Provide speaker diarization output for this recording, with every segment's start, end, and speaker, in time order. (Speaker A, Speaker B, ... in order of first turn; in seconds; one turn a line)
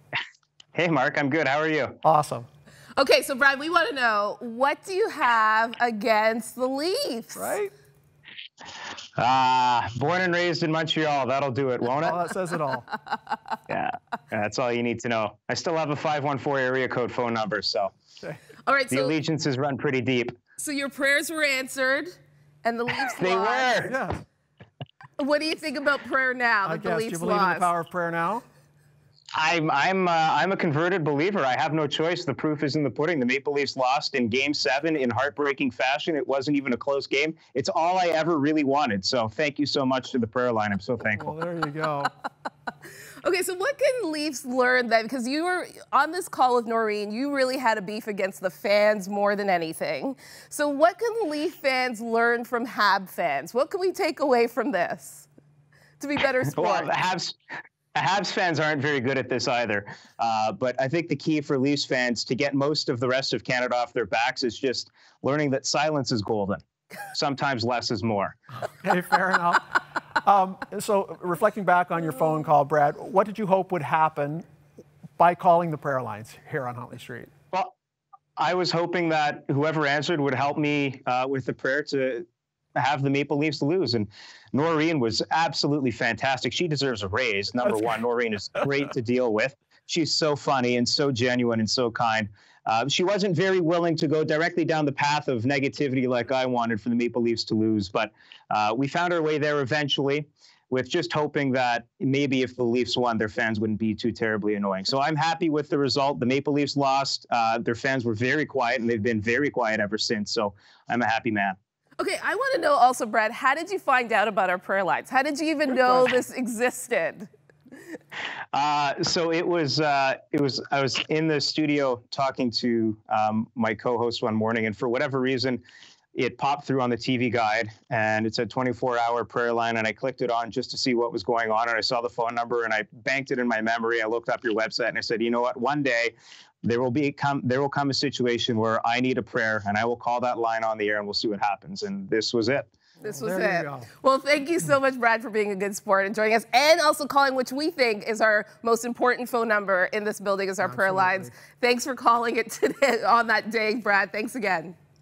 Speaker A: 0.8-2.0
Speaker B: 2.0-2.5
Speaker C: 3.0-7.6
Speaker B: 7.3-7.7
Speaker A: 9.2-12.2
Speaker B: 12.0-12.9
Speaker A: 13.7-17.9
Speaker C: 18.7-19.2
Speaker A: 18.9-20.4
Speaker C: 20.6-22.1
Speaker C: 22.6-23.9
Speaker A: 23.0-23.9
Speaker B: 23.9-24.2
Speaker C: 25.2-27.7
Speaker B: 26.7-28.4
Speaker A: 29.4-41.4
Speaker B: 41.2-42.1
Speaker C: 43.2-55.3
Speaker C: 56.0-56.9
Speaker A: 56.5-57.4
Speaker A: 58.0-68.4
Speaker B: 68.8-69.7
Speaker B: 70.2-74.5
Speaker B: 75.2-77.3
Speaker A: 78.4-111.6
Speaker C: 112.0-117.3
Speaker A: 118.5-125.6
Speaker A: 126.2-142.7
Speaker B: 143.0-143.9
Speaker C: 143.0-154.8
Speaker B: 150.6-151.3